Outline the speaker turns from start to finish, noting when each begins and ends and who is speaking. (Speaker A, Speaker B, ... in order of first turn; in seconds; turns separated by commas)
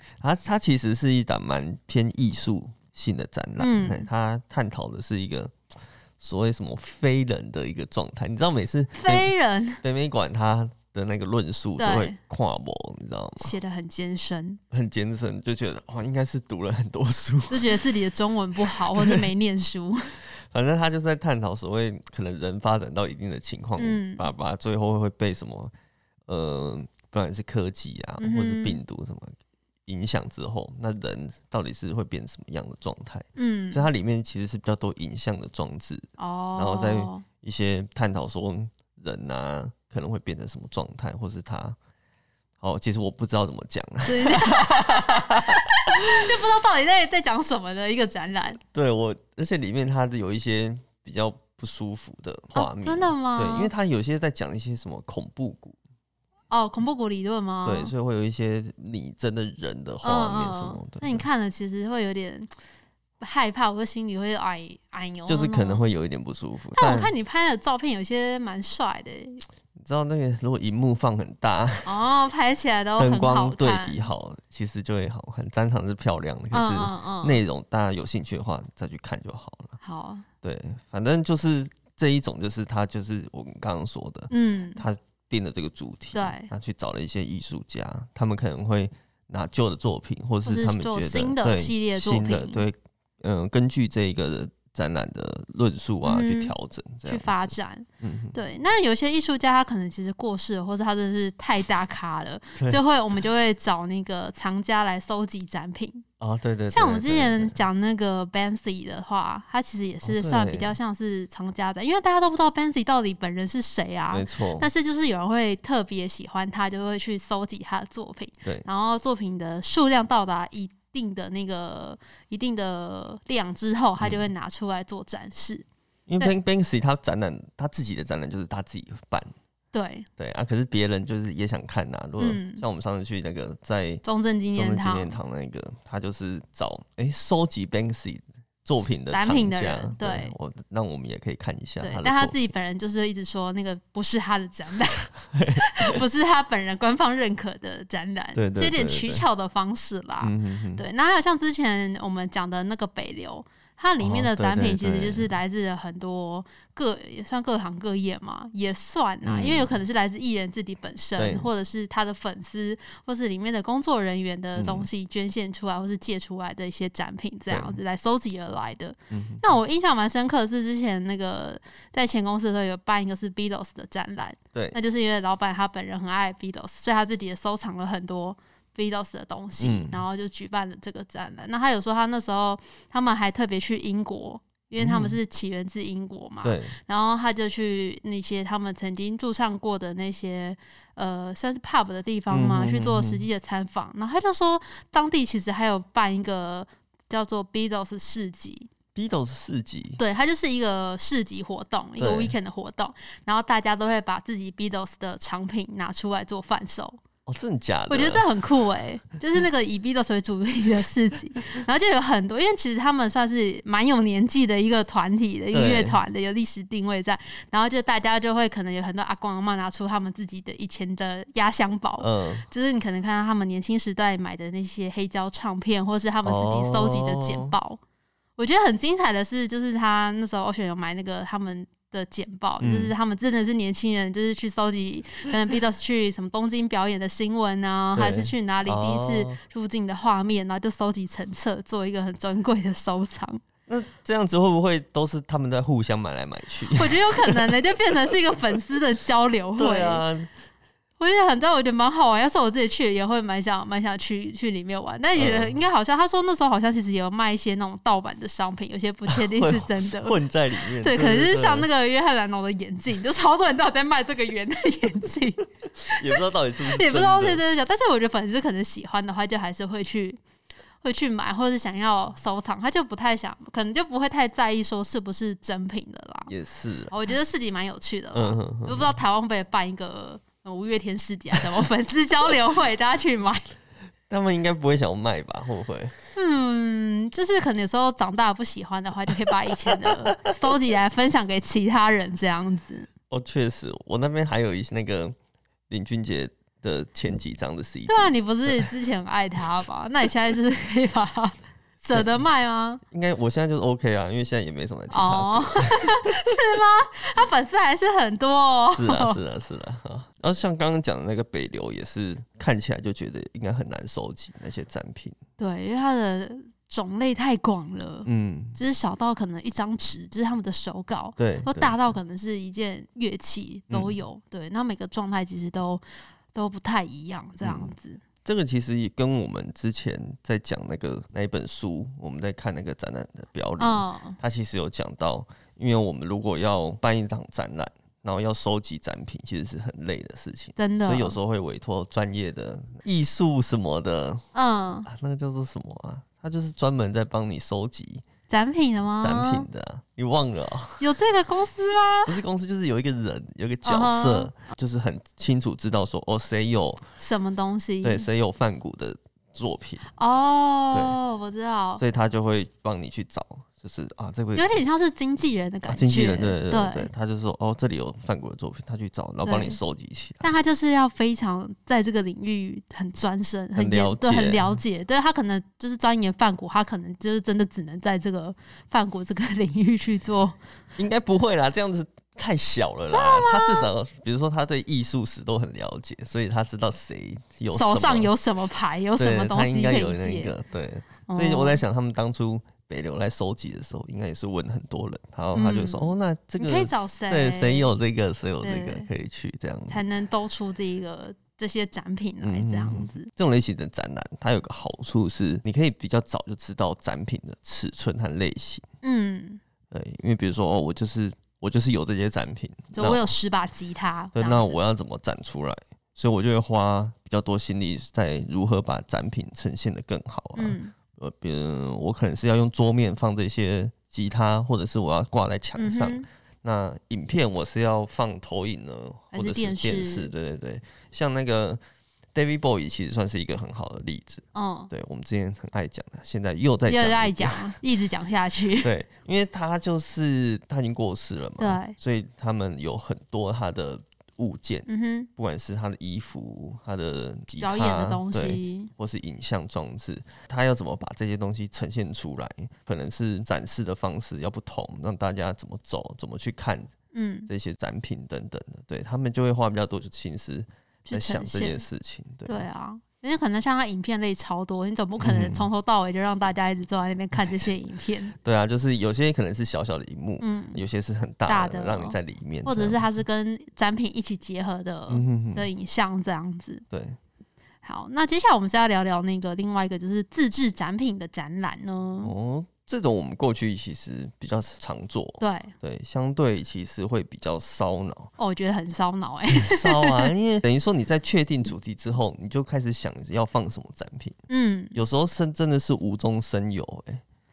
Speaker A: 0.2-5.5, Speaker B: 3.6-4.1, Speaker A: 6.2-9.3, Speaker B: 9.0-9.8, Speaker A: 9.8-13.6, Speaker B: 11.8-12.2, Speaker B: 13.4-14.6, Speaker A: 14.7-17.8, Speaker B: 17.5-20.2, Speaker A: 18.7-19.2, Speaker A: 20.4-25.7, Speaker B: 23.8-24.3, Speaker A: 26.3-29.3, Speaker B: 28.2-28.8, Speaker A: 29.9-41.8, Speaker B: 33.4-33.8, Speaker B: 36.2-37.2, Speaker A: 42.6-46.3, Speaker B: 44.0-48.6, Speaker A: 48.7-55.8, Speaker B: 52.5-53.7, Speaker B: 56.5-57.9, Speaker A: 57.6-61.2, Speaker B: 60.0-62.5, Speaker B: 63.2-65.8, Speaker A: 65.3-67.1, Speaker B: 66.8-69.4, Speaker A: 69.8-72.0, Speaker B: 71.8-74.1, Speaker A: 73.0-79.8, Speaker B: 76.5-77.4, Speaker B: 79.8-80.2, Speaker A: 80.4-98.4, Speaker B: 84.3-84.8, Speaker B: 86.1-86.5, Speaker B: 90.4-92.6, Speaker B: 96.0-96.5, Speaker B: 97.0-106.0, Speaker A: 106.2-107.6, Speaker B: 106.7-125.7, Speaker A: 110.0-110.8, Speaker A: 114.1-114.7, Speaker A: 126.1-129.3, Speaker B: 129.7-130.1, Speaker A: 130.2-134.0, Speaker B: 132.2-132.6, Speaker B: 134.0-135.2, Speaker A: 134.5-142.4, Speaker B: 139.1-140.3, Speaker B: 141.8-198.7, Speaker A: 145.3-146.0, Speaker A: 148.3-149.2, Speaker A: 150.2-150.8, Speaker A: 154.0-155.3, Speaker A: 159.2-159.8, Speaker A: 161.2-161.5, Speaker A: 164.6-164.9, Speaker A: 167.5-167.8, Speaker A: 169.1-169.5, Speaker A: 179.6-180.0, Speaker A: 184.8-185.2, Speaker A: 186.4-186.8, Speaker A: 192.3-193.2, Speaker A: 198.9-200.0, Speaker B: 200.0-207.0, Speaker A: 202.0-202.3, Speaker A: 207.3-208.2, Speaker B: 207.9-227.8, Speaker A: 215.5-216.0, Speaker A: 222.0-222.4, Speaker A: 226.2-227.5, Speaker B: 228.4-243.4, Speaker A: 232.6-232.9, Speaker A: 237.9-239.4, Speaker A: 243.7-248.2, Speaker B: 246.7-250.0, Speaker A: 249.6-250.3, Speaker B: 251.0-260.1, Speaker A: 255.2-255.6, Speaker A: 259.1-261.7, Speaker B: 260.8-270.2, Speaker A: 265.9-267.4, Speaker B: 270.8-276.3, Speaker A: 276.3-276.9, Speaker B: 276.9-283.4, Speaker A: 278.1-279.0, Speaker A: 284.1-286.0, Speaker B: 286.1-292.9, Speaker A: 289.7-290.5, Speaker A: 293.1-295.1, Speaker A: 295.7-298.7, Speaker B: 297.9-302.8, Speaker A: 301.9-302.2, Speaker A: 302.9-306.4, Speaker B: 304.9-309.2, Speaker A: 308.7-315.2, Speaker B: 315.4-325.8, Speaker A: 318.0-318.6, Speaker A: 321.2-321.8, Speaker B: 326.3-328.0, Speaker A: 327.4-327.7, Speaker A: 328.2-344.2, Speaker B: 333.6-334.2, Speaker B: 340.6-341.2, Speaker B: 344.3-344.9, Speaker A: 344.9-348.1, Speaker B: 348.3-349.4, Speaker A: 349.0-350.9, Speaker B: 350.8-352.1, Speaker A: 352.1-356.8, Speaker B: 353.6-354.3, Speaker B: 357.0-358.1, Speaker A: 357.8-359.8, Speaker B: 359.9-361.8, Speaker A: 361.8-364.6, Speaker B: 364.4-366.9, Speaker A: 365.7-370.2, Speaker B: 369.2-369.6, Speaker B: 370.2-380.4, Speaker A: 373.6-374.5, Speaker A: 380.8-388.1, Speaker B: 382.9-383.7, Speaker B: 387.5-390.3, Speaker A: 389.0-399.8, Speaker B: 391.1-391.6, Speaker B: 395.3-397.7, Speaker B: 398.4-398.9, Speaker B: 399.7-403.1, Speaker A: 402.2-408.6, Speaker B: 408.8-409.4, Speaker A: 409.7-413.1, Speaker B: 412.7-414.6, Speaker A: 414.1-431.6, Speaker B: 420.4-420.7, Speaker B: 425.6-426.1, Speaker B: 429.1-430.1, Speaker A: 432.1-437.6, Speaker B: 434.3-434.7, Speaker B: 436.7-438.7, Speaker A: 438.6-456.7, Speaker B: 441.4-441.8, Speaker B: 444.7-445.1, Speaker B: 447.4-448.7, Speaker B: 456.9-457.3, Speaker A: 457.3-462.4, Speaker B: 460.9-461.6, Speaker B: 462.2-468.1, Speaker A: 465.0-465.5, Speaker A: 467.2-467.5, Speaker A: 468.2-472.8, Speaker B: 470.2-470.6, Speaker B: 471.3-476.6, Speaker A: 474.9-475.5, Speaker A: 476.7-477.0, Speaker B: 477.6-482.1, Speaker A: 482.0-488.1, Speaker B: 485.2-485.5, Speaker B: 488.2-490.1, Speaker A: 489.3-494.1, Speaker B: 494.3-494.8, Speaker A: 494.8-497.0